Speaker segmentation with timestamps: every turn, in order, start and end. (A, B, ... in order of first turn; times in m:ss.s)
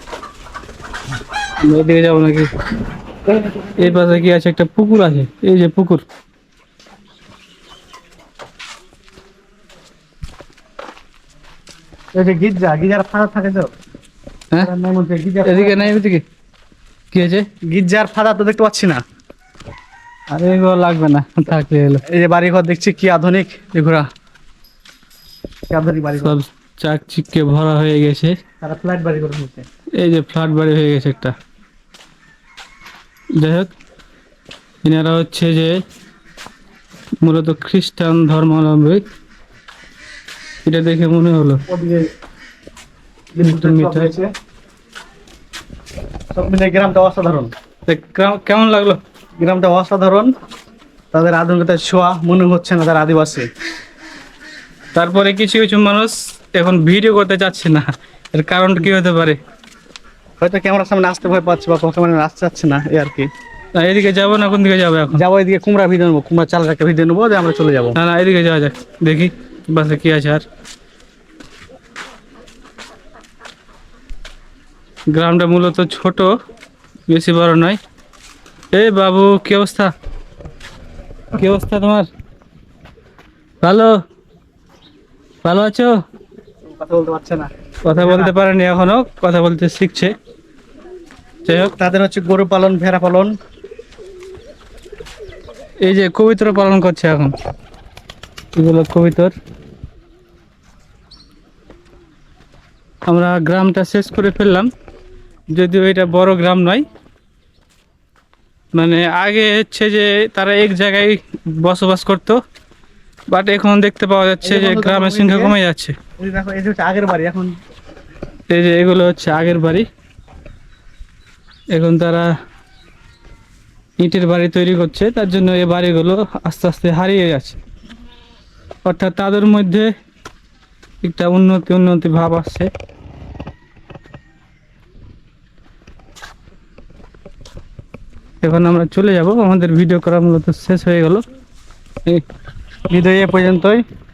0:01.6-0:02.5 A
0:03.3-0:04.1 B
0:03.8-0:06.0 A
0:12.1-0:13.7 B
0:14.6-0:16.0 B
0:15.4-0:16.2 A
0:17.1-0:17.5 A
0:17.7-0:19.0 B
0:20.3-0:22.0 A
0:22.1-0:24.1 B
0:25.7-0:26.4 B
0:26.2-0:28.4 A
0:28.6-0:29.7 B
0:30.0-0:31.4 A
0:33.4-0:33.7 A
0:34.8-0:35.8 A
0:37.2-0:39.0 A
0:40.7-0:41.6 A
0:41.7-0:42.1 B
0:43.4-0:44.3 B
0:43.4-0:44.1 A
0:46.3-0:47.5 B
0:47.9-0:49.0 A
0:49.4-0:50.3 B
0:51.1-0:53.5 B
0:55.0-0:59.4 A
1:00.4-1:03.3 B
1:03.8-1:05.2 A
1:05.1-1:08.0 B
1:08.0-1:10.4 A
1:15.1-1:16.3 A
1:17.1-1:17.8 A
1:18.7-1:19.9 A
1:21.4-1:22.1 A
1:23.6-1:23.9 A
1:25.4-1:26.0 A
1:26.6-1:28.3 B
1:27.8-1:30.1 A
1:31.5-1:31.7 A
1:31.8-1:33.3 B
1:35.8-1:37.3 A
1:38.6-1:39.3 A
1:43.1-1:44.7 A
1:45.5-1:46.9 A
1:48.8-1:52.4 A
1:53.3-1:56.0 A
1:54.4-1:55.6 B
1:56.2-1:57.5 B
1:58.5-1:59.9 A
2:01.7-2:02.3 A
2:04.0-2:07.6 A
2:08.8-2:09.9 A
2:11.0-2:12.7 A
2:18.4-2:21.2 A
2:22.9-2:23.8 B